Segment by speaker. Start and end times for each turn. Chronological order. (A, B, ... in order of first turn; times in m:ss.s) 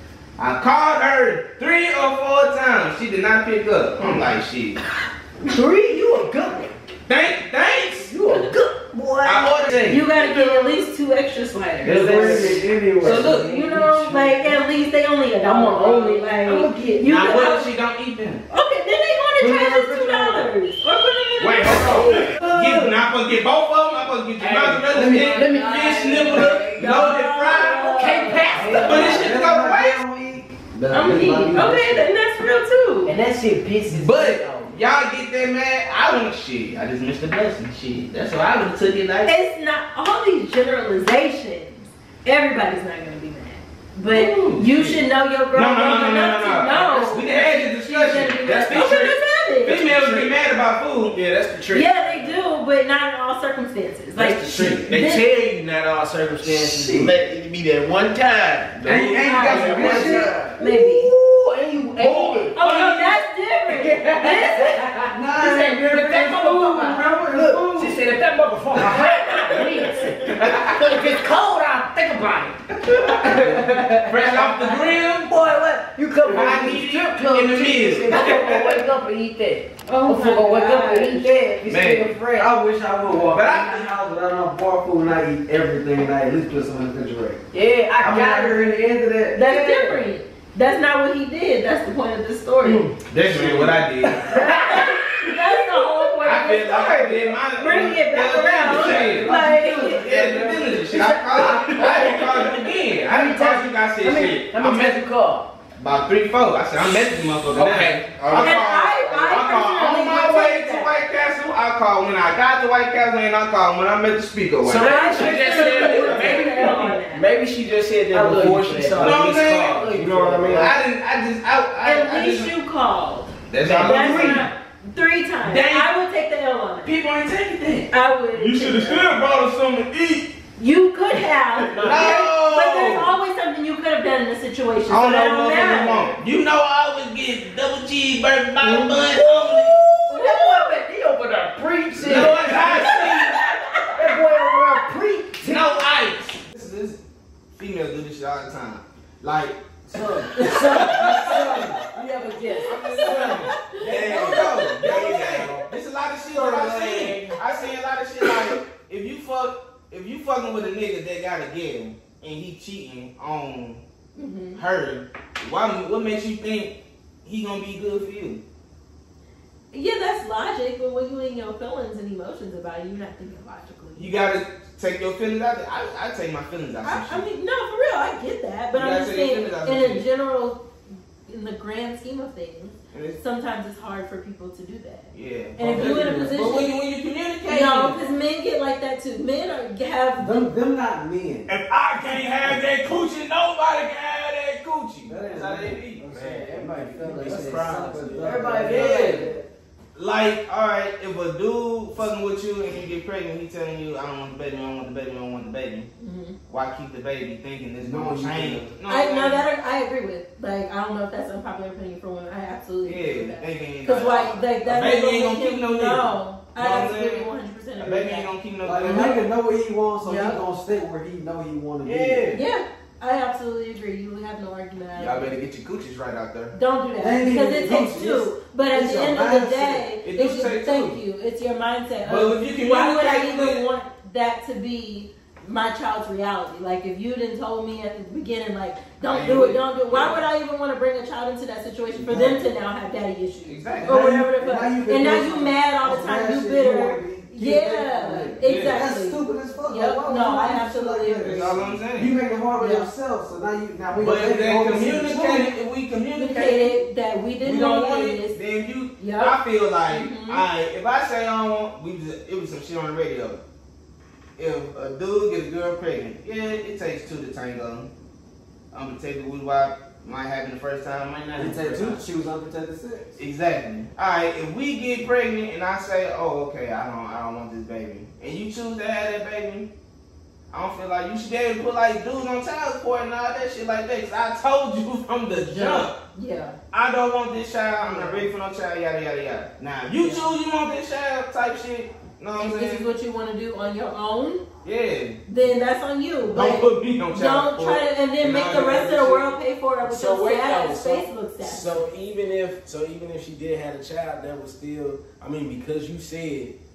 0:00.4-0:04.8 A
0:04.0-0:04.3 B
0:05.4-0:06.8 B
0:07.1-0:08.1 A
0:08.1-0:10.4 B
0:09.2-0:10.1 A
0:09.9-0:17.7 C
0:11.8-0:14.4 D
0:11.9-0:13.9 A
0:15.4-0:17.1 B
0:17.1-0:18.4 A
0:18.5-0:22.3 C
0:19.4-0:20.5 D
0:21.4-0:30.0 A
0:21.9-0:22.9 B
0:24.4-0:27.1 B
0:25.0-0:25.4 D
0:25.7-0:29.2 C
0:27.9-0:29.3 B
0:28.5-0:32.1 D
0:30.9-0:33.2 C
0:33.0-0:34.7 B
0:33.9-0:39.3 A
0:39.3-0:49.8 C
0:44.1-0:51.2 A
0:48.6-0:50.3 E
0:51.1-0:52.4 E
0:51.7-0:55.3 C
0:54.2-1:00.6 E
0:56.5-0:57.1 D
0:58.8-1:00.2 A
0:58.9-1:00.4 D
0:59.2-1:01.1 C
1:00.6-1:02.6 B
1:02.0-1:02.5 E
1:02.4-1:03.2 A
1:02.6-1:04.8 C
1:03.7-1:22.5 B
1:05.1-1:08.0 D
1:10.3-1:10.8 A
1:12.8-1:15.3 A
1:16.2-1:18.8 A
1:19.9-1:21.3 C
1:21.6-1:22.2 A
1:22.4-1:27.4 D
1:23.3-1:23.9 A
1:27.5-1:28.6 B
1:28.0-1:29.4 D
1:29.3-1:32.9 C
1:29.4-1:30.0 B
1:32.6-1:33.0 B
1:33.1-1:34.3 A
1:33.4-1:33.8 E
1:34.1-1:35.3 B
1:34.3-1:40.0 C
1:36.2-1:39.3 A
1:38.7-1:40.8 D
1:40.0-1:45.0 A
1:40.0-1:40.6 E
1:40.9-1:45.5 B
1:41.4-1:42.2 E
1:45.8-1:55.0 A
1:47.5-1:48.9 E
1:48.4-1:51.0 C
1:54.6-1:57.0 B
1:54.8-1:57.3 C
1:54.8-2:00.7 E
1:55.6-1:56.5 A
1:58.1-2:00.8 B
1:59.0-1:59.9 A
2:00.5-2:02.5 A
2:01.8-2:06.9 C
2:03.5-2:04.5 A
2:03.7-2:04.3 E
2:05.4-2:05.9 A
2:06.8-2:10.3 A
2:07.9-2:09.2 C
2:10.6-2:16.1 C
2:11.7-2:13.1 A
2:11.7-2:12.3 B
2:14.9-2:19.8 A
2:18.6-2:23.4 B
2:20.1-2:20.8 C
2:22.0-2:23.5 A
2:23.9-2:25.7 B
2:25.4-2:27.0 A
2:27.6-2:29.6 A
2:29.9-2:30.2 D
2:29.9-2:33.4 B
2:30.4-2:31.7 A
2:31.4-2:31.6 D
2:32.5-2:35.1 C
2:32.7-2:43.8 A
2:33.3-2:35.7 E
2:36.3-2:37.4 E
2:44.2-2:44.6 C
2:44.6-2:46.7 A
2:47.2-2:48.4 A
2:49.7-2:54.2 C
2:54.0-2:57.2 A
2:56.8-3:00.6 C
2:58.7-3:00.0 A
3:01.3-3:06.7 C
3:02.9-3:03.2 A
3:05.1-3:08.0 A
3:05.6-3:06.6 D
3:07.5-3:10.5 C
3:10.2-3:11.5 D
3:11.5-3:16.0 A
3:15.0-3:15.8 D
3:16.0-3:19.2 E
3:16.0-3:19.4 B
3:16.6-3:19.2 D
3:18.7-3:19.3 A
3:20.0-3:25.9 A
3:26.0-3:26.4 C
3:26.5-3:29.4 A
3:27.8-3:28.7 D
3:28.9-3:38.3 C
3:32.8-3:39.2 A
3:38.6-3:42.3 D
3:38.9-3:39.2 C
3:40.0-3:40.4 C
3:41.8-3:42.4 A
3:42.3-3:45.3 C
3:45.0-3:46.6 A
3:46.5-4:11.6 C
3:47.0-3:49.8 D
3:50.0-3:51.0 A
3:52.0-3:53.6 A
3:59.1-4:00.2 A
4:02.0-4:02.4 D
4:03.5-4:04.1 A
4:03.8-4:15.5 D
4:08.4-4:08.8 A
4:11.2-4:12.1 A
4:12.6-4:12.9 C
4:14.0-4:16.8 A
4:16.2-4:18.4 C
4:17.4-4:23.4 A
4:19.0-4:19.4 C
4:19.9-4:20.4 C
4:24.4-4:27.9 A
4:28.7-4:32.0 A
4:31.4-4:33.2 D
4:33.2-4:39.7 A
4:40.5-4:46.0 A
4:45.4-4:46.6 C
4:46.7-4:52.8 A
4:47.8-4:48.3 C
4:50.0-4:50.3 C
4:52.4-4:54.4 C
4:54.6-4:55.2 A
4:55.3-5:01.9 C
4:56.3-4:59.2 A
4:58.4-4:59.2 E
4:59.8-5:06.6 E